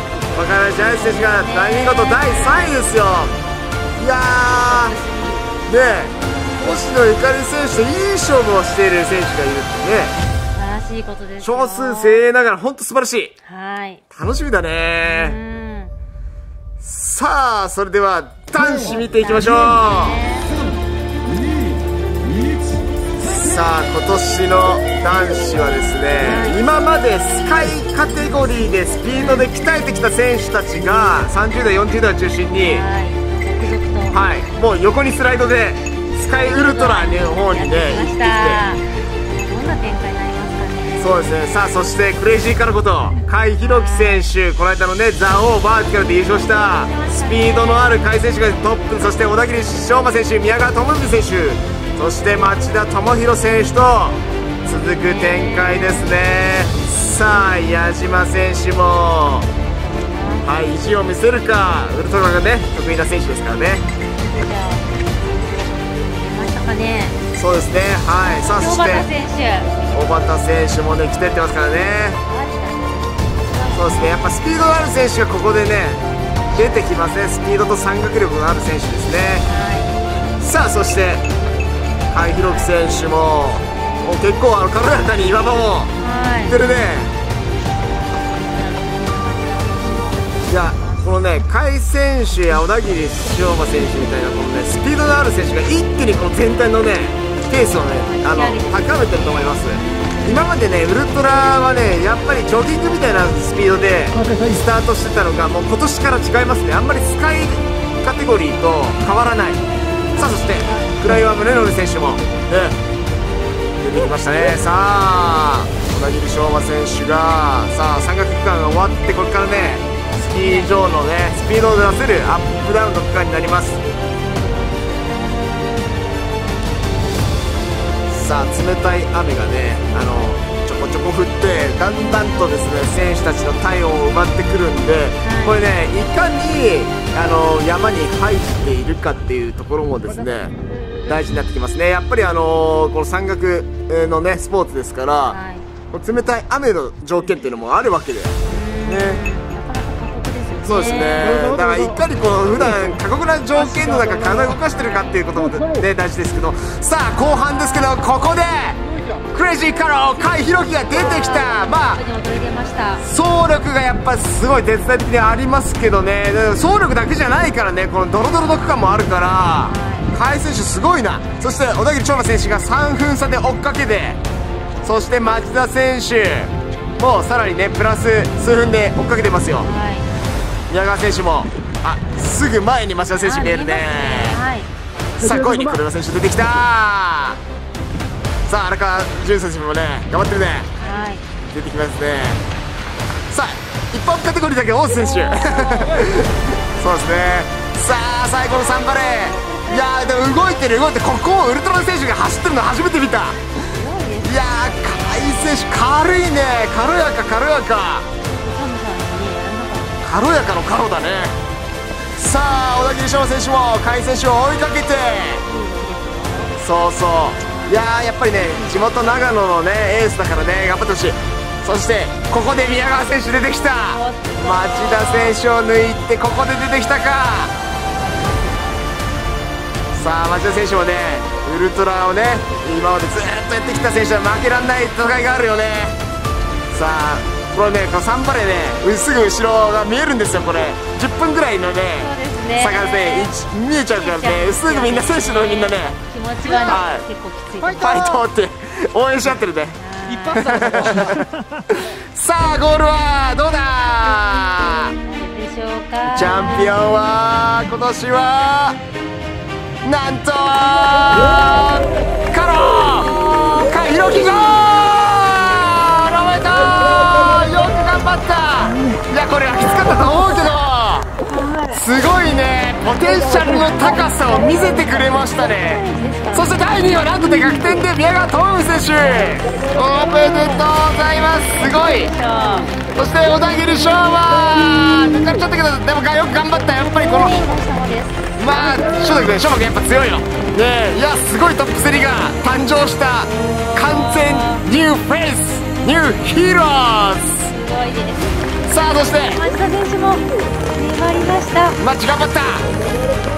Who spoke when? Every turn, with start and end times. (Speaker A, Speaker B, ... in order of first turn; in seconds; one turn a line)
Speaker A: 0.3-3.4
Speaker B: 0.9-2.8
Speaker A: 4.0-5.0
Speaker B: 4.6-5.5
Speaker A: 5.7-10.2
Speaker B: 10.5-12.2
Speaker A: 11.4-13.3
Speaker B: 13.5-14.0
Speaker A: 14.1-15.4
Speaker B: 15.0-15.9
Speaker A: 16.8-20.2
Speaker B: 18.7-20.6
Speaker A: 23.2-32.9
Speaker B: 26.2-26.6
Speaker B: 29.1-29.5
Speaker B: 32.6-34.2
Speaker A: 34.1-38.6
Speaker B: 36.4-41.2
Speaker A: 41.0-59.5
Speaker B: 43.6-44.3
Speaker B: 46.6-48.0
Speaker B: 55.0-55.9
Speaker B: 60.1-60.5
Speaker A: 60.4-63.8
Speaker B: 64.3-67.2
Speaker A: 67.3-69.1
Speaker B: 68.2-69.8
Speaker A: 69.9-72.2
Speaker B: 72.3-74.2
Speaker A: 73.7-76.0
Speaker A: 76.5-79.5
Speaker B: 79.4-80.0
Speaker A: 80.4-81.2
Speaker A: 82.1-85.9
Speaker B: 83.8-84.0
Speaker B: 86.0-86.6
Speaker A: 86.5-87.1
Speaker B: 88.1-91.3
Speaker A: 90.5-109.6
Speaker B: 97.7-100.5
Speaker B: 110.0-111.3
Speaker A: 110.2-112.8
Speaker A: 113.8-123.8
Speaker B: 120.4-120.9
Speaker B: 124.2-125.7
Speaker A: 128.1-145.4
Speaker B: 135.2-135.7
Speaker B: 145.3-145.7
Speaker A: 145.9-149.2
Speaker B: 148.5-151.4
Speaker A: 150.7-158.8
Speaker B: 157.1-158.2
Speaker B: 158.8-159.2
Speaker A: 159.3-162.0
Speaker B: 160.9-163.1
Speaker A: 163.0-174.2
Speaker B: 169.6-170.1
Speaker A: 174.8-179.7
Speaker B: 179.6-180.1
Speaker A: 180.7-184.4
Speaker B: 183.2-184.7
Speaker A: 185.2-187.4
Speaker A: 188.5-190.7
Speaker B: 190.8-191.2
Speaker A: 191.5-192.4
Speaker A: 193.3-203.5
Speaker B: 203.7-205.6
Speaker A: 204.2-208.1
Speaker B: 208.3-210.1
Speaker A: 210.0-211.4
Speaker A: 212.1-215.4
Speaker B: 215.4-216.6
Speaker A: 216.6-227.5
Speaker B: 223.9-225.4
Speaker A: 229.9-235.9
Speaker A: 236.7-246.0
Speaker B: 241.9-243.3
Speaker B: 243.9-248.0
Speaker A: 246.6-247.1
Speaker A: 247.7-249.8
Speaker B: 249.8-251.1
Speaker A: 250.3-254.9
Speaker B: 255.1-256.8
Speaker A: 256.1-258.8
Speaker A: 259.8-271.1
Speaker B: 271.3-271.8
Speaker A: 271.7-282.1
Speaker B: 273.6-277.0
Speaker B: 281.4-282.7
Speaker A: 282.9-287.4
Speaker B: 287.0-288.4
Speaker A: 288.4-297.5
Speaker B: 293.4-294.6
Speaker B: 297.4-298.4
Speaker A: 298.7-299.4
Speaker B: 299.1-301.8
Speaker A: 301.8-302.7